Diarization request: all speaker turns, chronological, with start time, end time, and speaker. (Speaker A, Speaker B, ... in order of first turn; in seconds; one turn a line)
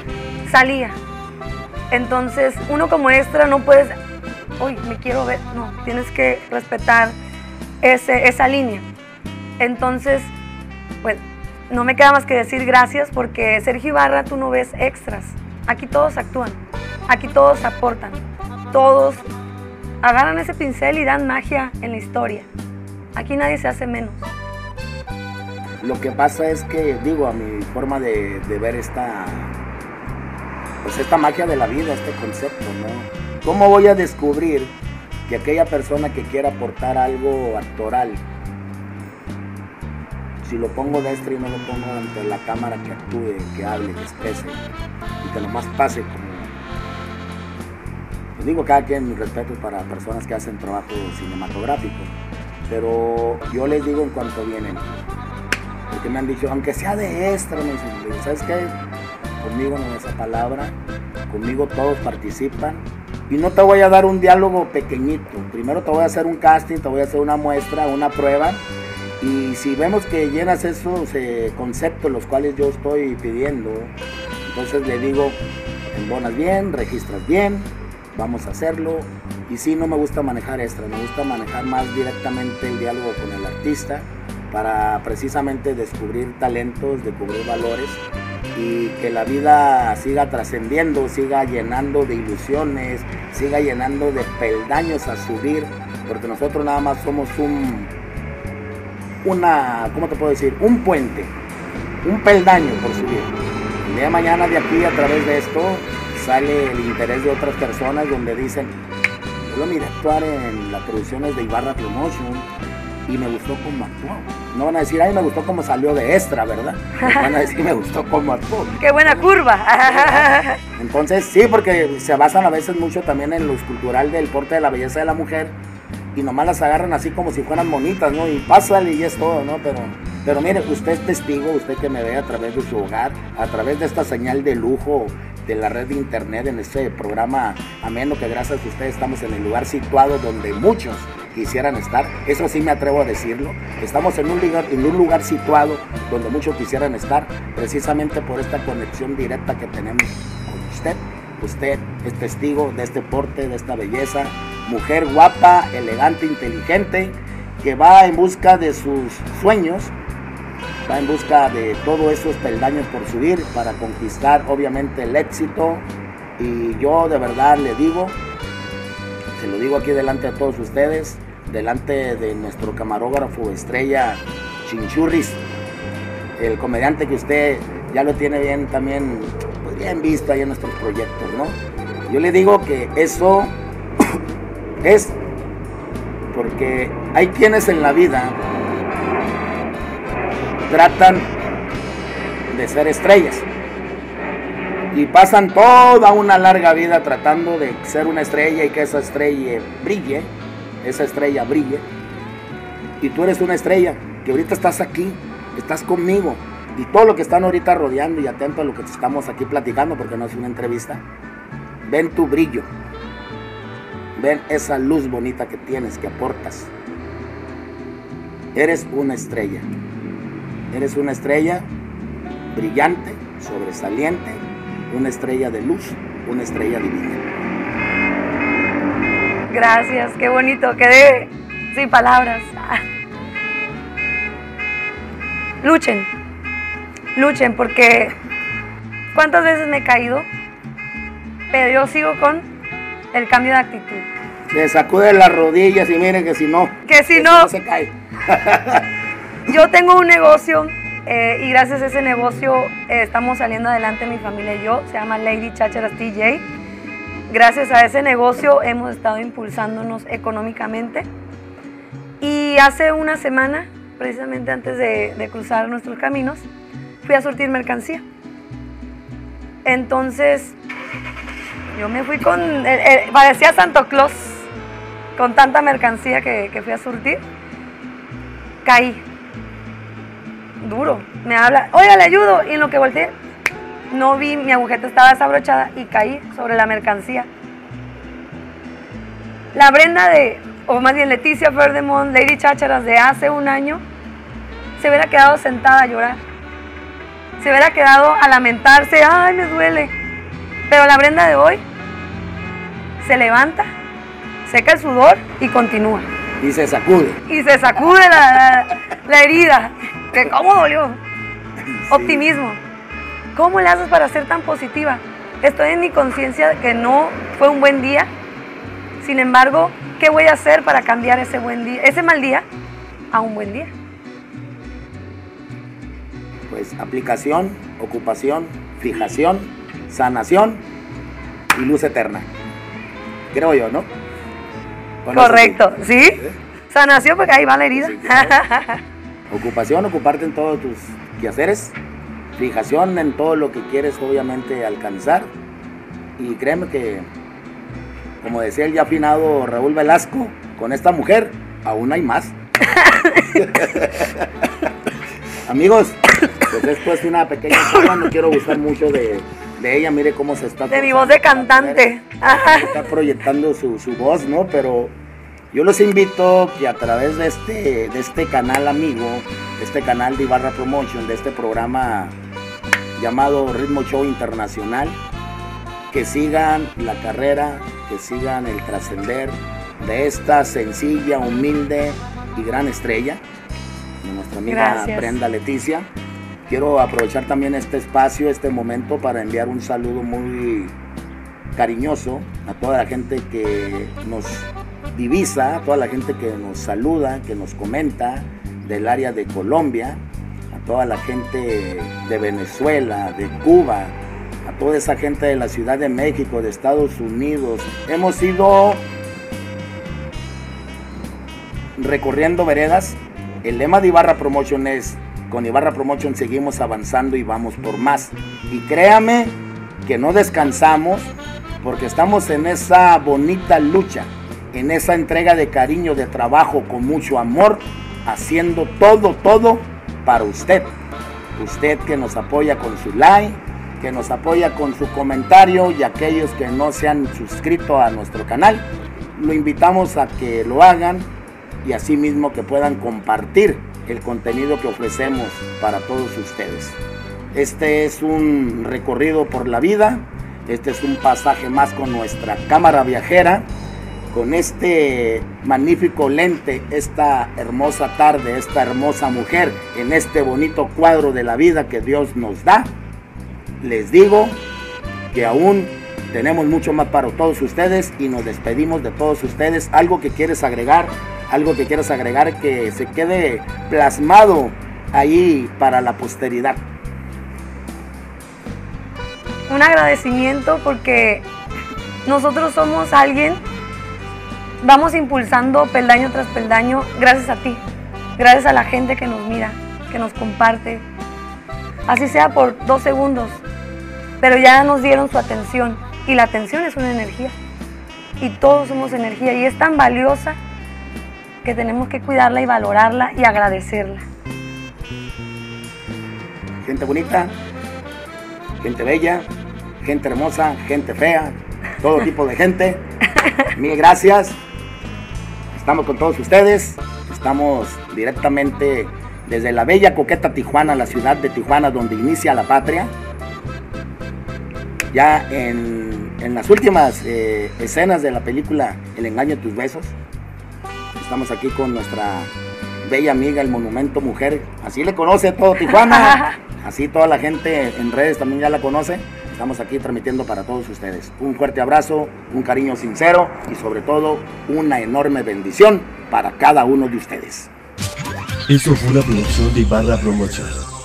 Speaker A: 0.5-1.0
Speaker A: 1.9-3.9
Speaker A: 4.6-7.2
Speaker A: 7.8-8.9
Speaker A: 9.6-10.3
Speaker A: 11.0-19.2
Speaker A: 20.0-22.5
Speaker A: 23.1-24.3
Speaker B: 25.8-29.5
Speaker B: 30.8-34.7
Speaker B: 35.3-38.2
Speaker B: 40.4-44.6
Speaker B: 45.2-46.5
Speaker B: 48.4-52.1
Speaker B: 52.7-54.9
Speaker B: 55.9-58.7
Speaker B: 59.4-60.8
Speaker B: 61.3-68.6
Speaker B: 69.2-73.9
Speaker B: 74.5-75.4
Speaker B: 75.9-88.0
Speaker B: 88.5-97.9
Speaker B: 99.2-101.3
Speaker B: 102.0-103.3
Speaker B: 103.8-108.7
Speaker B: 109.5-112.5
Speaker B: 113.1-125.6
Speaker A: 117.0-117.3
Speaker A: 118.8-120.6
Speaker B: 126.1-159.9
Speaker B: 160.8-165.8
Speaker B: 166.4-168.2
Speaker B: 169.4-175.4
Speaker B: 176.4-183.6
Speaker B: 184.8-185.2
Speaker B: 186.3-188.4
Speaker B: 190.7-191.3
Speaker B: 192.5-193.5
Speaker B: 194.9-200.3
Speaker B: 200.8-201.8
Speaker B: 203.0-211.0
Speaker B: 211.9-212.7
Speaker B: 214.2-216.7
Speaker B: 218.5-219.7
Speaker B: 220.7-221.7
Speaker B: 222.5-227.2
Speaker A: 229.5-232.8
Speaker A: 235.6-236.1
Speaker A: 237.1-238.2
Speaker A: 239.1-240.3
Speaker A: 241.5-242.5
Speaker A: 243.1-244.1
Speaker B: 244.5-248.9
Speaker A: 246.9-247.5
Speaker A: 249.5-256.4
Speaker A: 257.3-261.1
Speaker A: 262.2-266.5
Speaker A: 267.0-268.0
Speaker A: 269.6-270.6
Speaker A: 271.7-274.5
Speaker A: 275.2-277.2
Speaker A: 278.6-279.0
Speaker A: 280.6-283.1
Speaker A: 283.9-287.3
Speaker A: 289.5-293.8
Speaker A: 294.8-296.2
Speaker A: 297.4-299.9
Speaker A: 300.7-301.6
Speaker A: 303.0-303.7
Speaker A: 304.4-306.1
Speaker B: 306.4-307.2
Speaker A: 307.3-311.0
Speaker B: 311.7-312.2
Speaker A: 311.9-312.6
Speaker A: 313.4-318.1
Speaker A: 319.0-322.5
Speaker A: 323.1-323.7
Speaker B: 326.5-330.6
Speaker B: 331.5-332.3
Speaker B: 333.3-333.9
Speaker B: 335.1-335.6
Speaker A: 335.1-336.2
Speaker A: 336.7-338.8
Speaker B: 337.8-338.4
Speaker B: 339.3-341.8
Speaker B: 342.4-345.3
Speaker B: 346.2-347.1
Speaker B: 348.2-352.4
Speaker A: 352.6-353.5
Speaker B: 353.3-354.3
Speaker B: 355.4-364.9
Speaker A: 360.7-362.8
Speaker B: 365.5-372.1
Speaker B: 373.0-375.0
Speaker B: 375.9-383.2
Speaker B: 384.0-385.9
Speaker A: 384.5-385.2
Speaker B: 386.5-390.8
Speaker B: 391.6-408.9
Speaker B: 411.8-430.7
Speaker B: 431.4-441.1
Speaker B: 441.6-446.8
Speaker B: 447.3-453.5
Speaker B: 454.1-462.7
Speaker B: 463.6-464.4
Speaker B: 465.1-476.6
Speaker A: 479.5-481.3
Speaker A: 482.1-483.4
Speaker A: 484.6-487.6
Speaker A: 488.2-490.9
Speaker A: 491.9-493.4
Speaker A: 494.2-497.3
Speaker A: 498.2-500.4
Speaker A: 501.4-504.0
Speaker B: 506.6-507.3
Speaker B: 508.6-509.3
Speaker B: 509.8-512.8
Speaker B: 513.5-514.4
Speaker B: 515.5-522.9
Speaker B: 524.9-530.0
Speaker B: 531.0-532.3
Speaker B: 532.8-547.5
Speaker A: 535.7-536.4
Speaker C: 548.5-550.5